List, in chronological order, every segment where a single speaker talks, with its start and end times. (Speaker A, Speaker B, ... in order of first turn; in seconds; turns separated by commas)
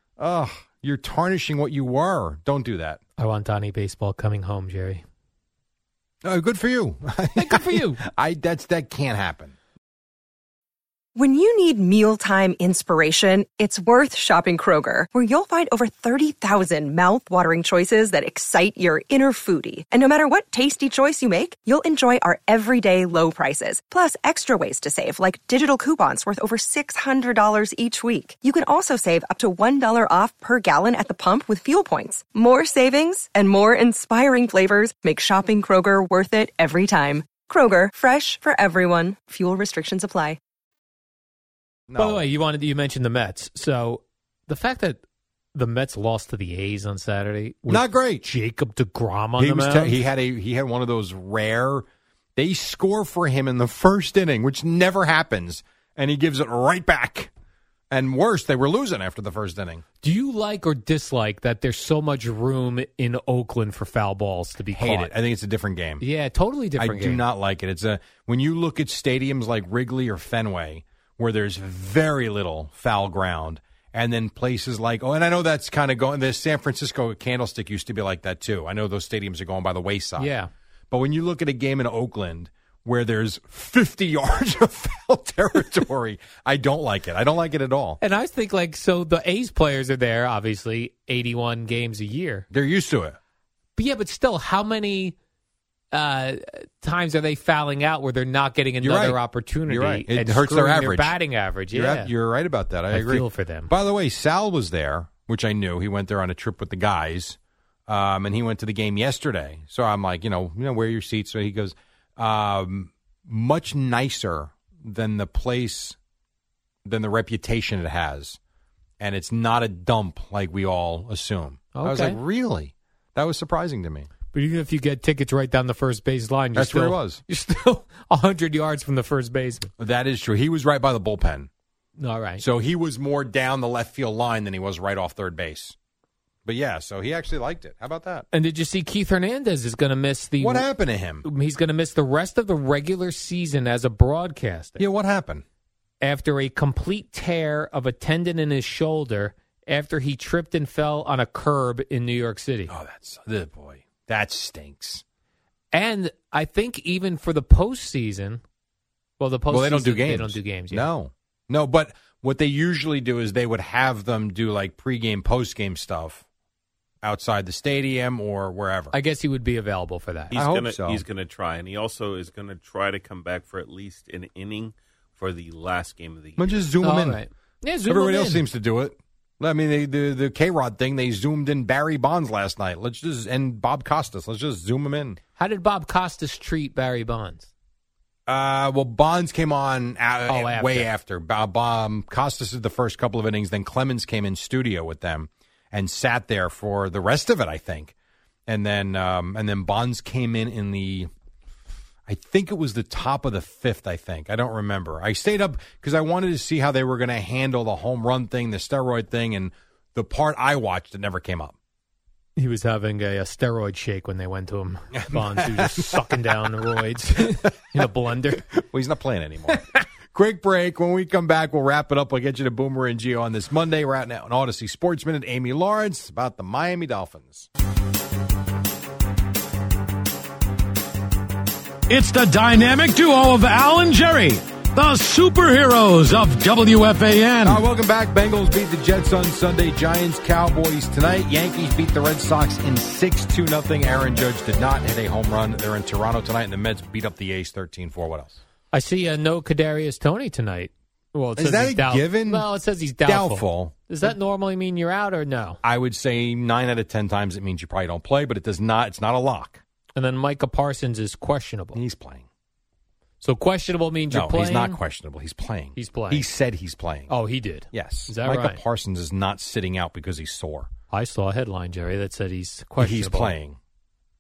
Speaker A: 0.2-3.0, Speaker B: 3.2-5.0, Speaker A: 6.2-9.6, Speaker B: 7.4-8.0, Speaker C: 11.2-40.4, Speaker A: 41.9-42.3, Speaker B: 42.0-45.0, Speaker B: 45.5-50.0, Speaker A: 47.7-48.3, Speaker A: 49.4-57.3, Speaker A: 57.9-59.8, Speaker B: 60.0-65.1, Speaker A: 64.7-66.0, Speaker B: 66.0-67.2, Speaker A: 66.8-80.3, Speaker B: 80.2-80.5, Speaker A: 80.9-88.0, Speaker B: 88.0-92.5, Speaker A: 92.5-93.2, Speaker B: 93.8-95.2, Speaker B: 95.9-102.1, Speaker A: 98.8-101.2, Speaker A: 101.7-107.4, Speaker B: 102.9-103.7, Speaker A: 107.9-116.0, Speaker A: 116.8-118.4, Speaker A: 119.0-124.1, Speaker B: 121.7-122.2, Speaker B: 124.3-129.7, Speaker A: 126.5-127.2, Speaker A: 129.8-131.5, Speaker B: 132.0-132.4, Speaker A: 132.4-135.8, Speaker A: 136.5-138.3, Speaker B: 138.3-140.7, Speaker A: 140.4-141.2, Speaker B: 141.2-144.9, Speaker A: 144.8-145.4, Speaker B: 146.0-152.7, Speaker A: 152.7-155.0, Speaker B: 155.7-158.4, Speaker B: 159.2-160.9, Speaker A: 159.5-166.2, Speaker A: 167.0-168.9, Speaker B: 168.9-170.4, Speaker D: 170.3-176.6, Speaker A: 170.3-171.1, Speaker A: 176.4-177.2, Speaker B: 176.8-178.4, Speaker A: 177.9-185.2, Speaker B: 185.4-187.5, Speaker A: 188.3-197.9, Speaker B: 190.3-190.9, Speaker A: 198.5-201.1, Speaker A: 202.1-211.6, Speaker B: 212.4-218.5, Speaker A: 215.1-216.2, Speaker A: 218.6-227.5, Speaker E: 231.9-237.6, Speaker A: 237.4-248.4, Speaker B: 248.7-255.6, Speaker A: 251.4-252.5, Speaker A: 253.1-254.1, Speaker A: 255.6-259.6, Speaker B: 259.9-261.8, Speaker A: 261.8-262.2, Speaker B: 263.2-264.8, Speaker A: 264.1-267.1, Speaker B: 265.8-266.3, Speaker B: 267.1-268.6, Speaker A: 267.7-270.7, Speaker B: 270.9-273.4, Speaker A: 272.8-273.6